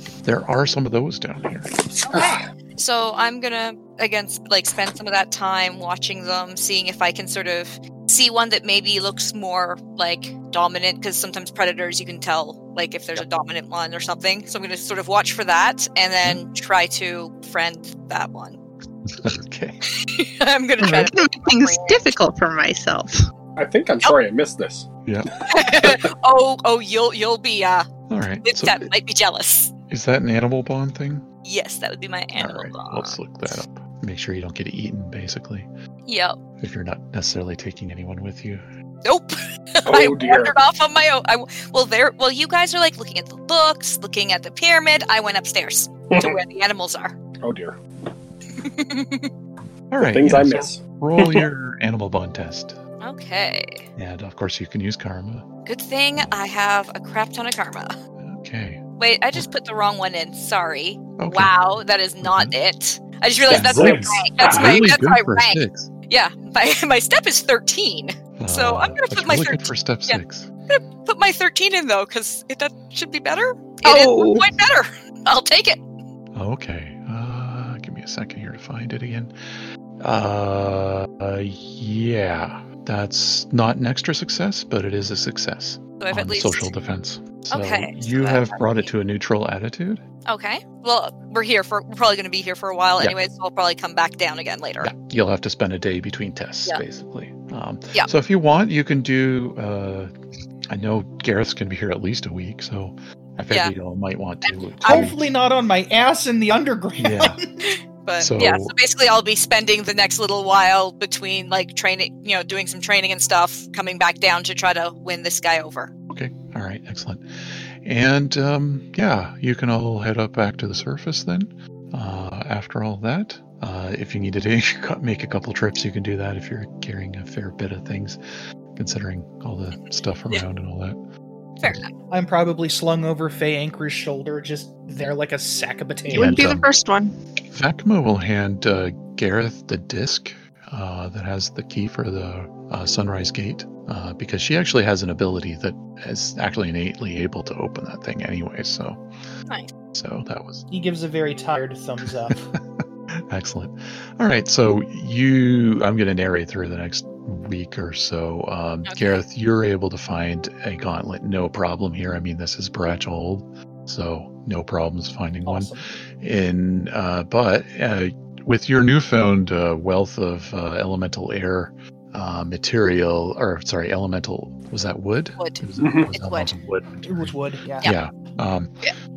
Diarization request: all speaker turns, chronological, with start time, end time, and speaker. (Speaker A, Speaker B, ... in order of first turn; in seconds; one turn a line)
Speaker A: 0.2-1.7
Speaker B: 2.0-18.6
Speaker C: 2.1-2.4
Speaker A: 19.1-19.8
Speaker B: 19.9-22.1
Speaker D: 20.8-23.2
Speaker C: 23.6-26.0
Speaker A: 25.1-25.4
Speaker B: 25.5-27.9
Speaker A: 28.1-28.9
Speaker B: 28.4-29.7
Speaker A: 29.9-31.2
Speaker B: 31.4-33.1
Speaker A: 32.4-35.7
Speaker B: 36.1-36.4
Speaker A: 36.6-38.6
Speaker B: 39.0-47.1
Speaker C: 39.9-40.5
Speaker C: 47.4-47.8
Speaker B: 48.6-49.3
Speaker A: 49.9-52.8
Speaker C: 50.0-51.5
Speaker B: 53.0-53.9
Speaker A: 54.0-55.5
Speaker B: 55.7-57.9
Speaker A: 58.2-58.8
Speaker B: 59.0-75.8
Speaker A: 61.2-61.6
Speaker A: 62.2-62.5
Speaker C: 63.5-64.9
Speaker A: 63.5-65.9
Speaker A: 68.4-70.5
Speaker D: 73.8-74.5
Speaker A: 76.3-79.3
Speaker A: 80.0-90.0
Speaker B: 86.0-86.7
Speaker B: 87.5-88.9
Speaker B: 90.3-94.9
Speaker A: 94.8-100.1
Speaker A: 100.7-105.2
Speaker B: 104.5-105.1
Speaker E: 104.8-107.5
Speaker A: 107.0-107.4
Speaker B: 107.7-115.9
Speaker A: 108.2-108.7
Speaker A: 116.1-117.2
Speaker A: 117.8-128.2
Speaker A: 128.8-131.0
Speaker B: 131.6-131.9
Speaker E: 132.1-136.5
Speaker D: 136.1-137.2
Speaker A: 136.1-136.7
Speaker A: 137.5-149.0
Speaker A: 149.9-150.7
Speaker E: 150.7-152.5
Speaker A: 152.1-178.7
Speaker B: 158.9-159.2
Speaker E: 165.4-165.8
Speaker B: 175.4-176.5
Speaker C: 175.8-176.1
Speaker E: 177.0-177.9